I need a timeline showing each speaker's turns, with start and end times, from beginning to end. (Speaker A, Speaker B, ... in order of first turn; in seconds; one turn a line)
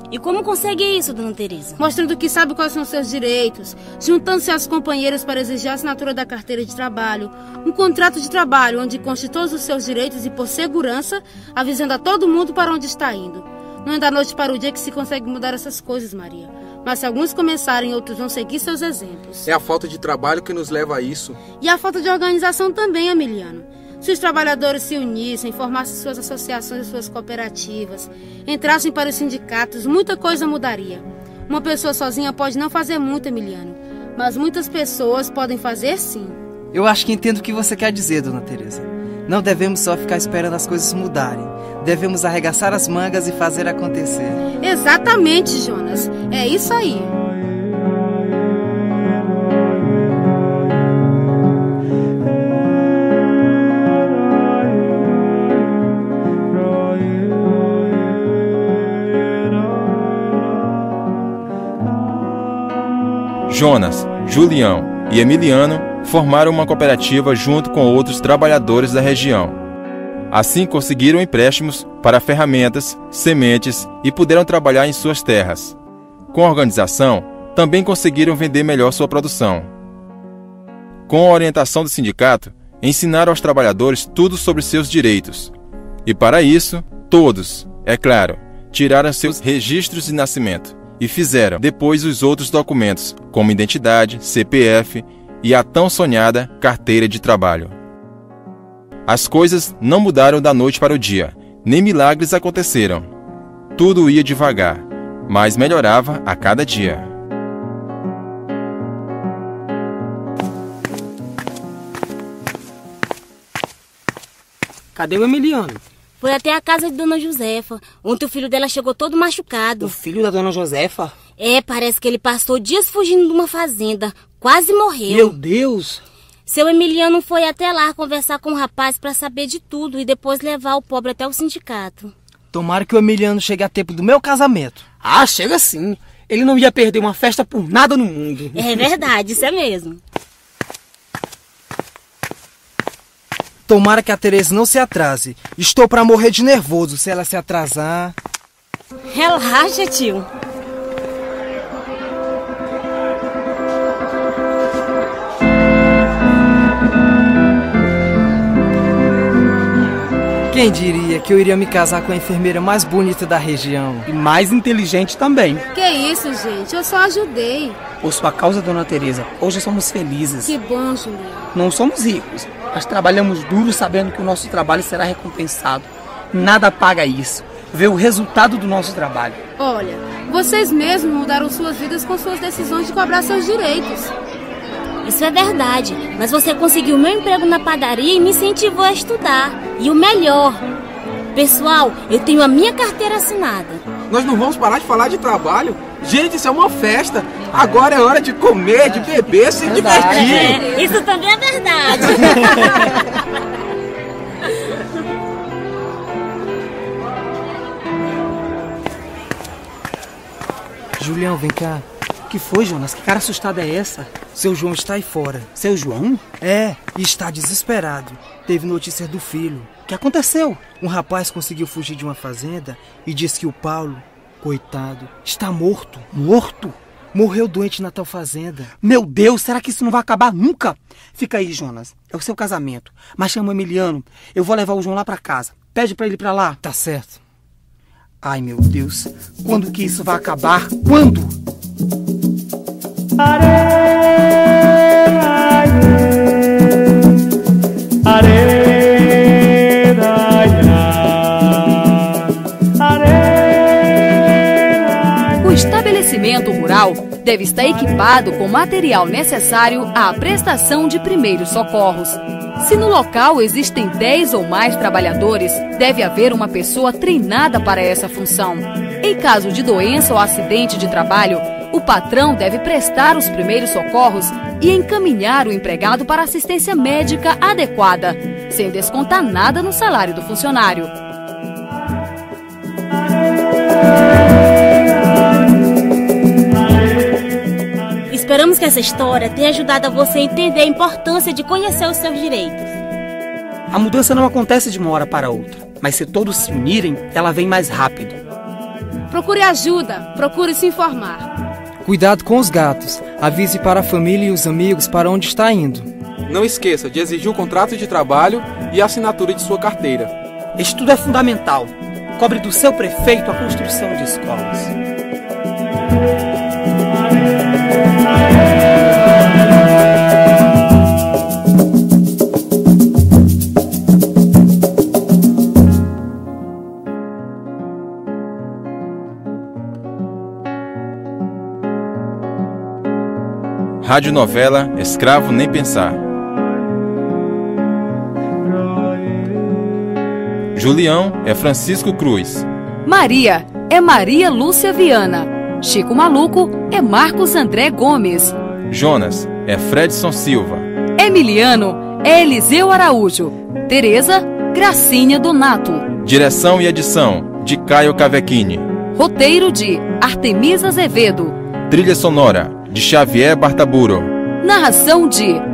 Speaker A: 0.1-1.7
Speaker B: 1.8-19.5
Speaker C: 19.5-21.4
Speaker B: 21.6-36.4
Speaker D: 36.7-44.4
Speaker B: 44.6-47.1
Speaker E: 63.5-69.6
Speaker E: 70.3-75.8
Speaker E: 76.3-79.7
Speaker E: 81.1-85.5
Speaker E: 86.0-97.7
Speaker E: 99.1-103.1
Speaker E: 103.8-107.1
Speaker F: 114.9-115.8
Speaker A: 116.2-119.9
Speaker F: 119.8-121.2
Speaker A: 121.4-125.4
Speaker F: 125.0-126.0
Speaker A: 126.5-132.1
Speaker D: 132.5-134.8
Speaker F: 135.0-138.7
Speaker A: 138.6-140.0
Speaker D: 143.7-148.1
Speaker A: 149.1-150.3
Speaker D: 160.5-164.1
Speaker F: 164.1-165.6
Speaker B: 165.7-167.8
Speaker F: 168.0-170.5
Speaker B: 170.4-171.5
Speaker F: 171.5-179.4
Speaker B: 179.6-184.1
Speaker A: 185.0-190.6
Speaker A: 191.3-193.8
Speaker C: 194.1-200.6
Speaker D: 199.7-200.0
Speaker A: 199.9-202.8
Speaker D: 211.0-211.8
Speaker F: 212.3-214.1
Speaker D: 214.3-215.5
Speaker F: 215.5-216.2
Speaker D: 216.4-219.7
Speaker F: 219.9-220.6
Speaker D: 220.8-226.1
Speaker F: 226.1-226.8
Speaker D: 227.1-228.7
Speaker F: 228.8-236.6
Speaker D: 236.6-237.2
Speaker F: 238.2-241.3
Speaker G: 255.4-280.9
Speaker A: 288.1-292.7
Speaker F: 293.7-298.2
Speaker B: 299.1-301.3
Speaker D: 301.8-305.9
Speaker C: 306.3-310.1
Speaker F: 310.6-314.7
Speaker E: 333.8-336.0
Speaker E: 340.5-342.5
Speaker G: 342.9-348.3
Speaker E: 348.7-350.6
Speaker G: 351.0-355.8
Speaker E: 356.0-358.7
Speaker G: 358.9-361.4
Speaker E: 361.7-364.1
Speaker G: 364.4-365.4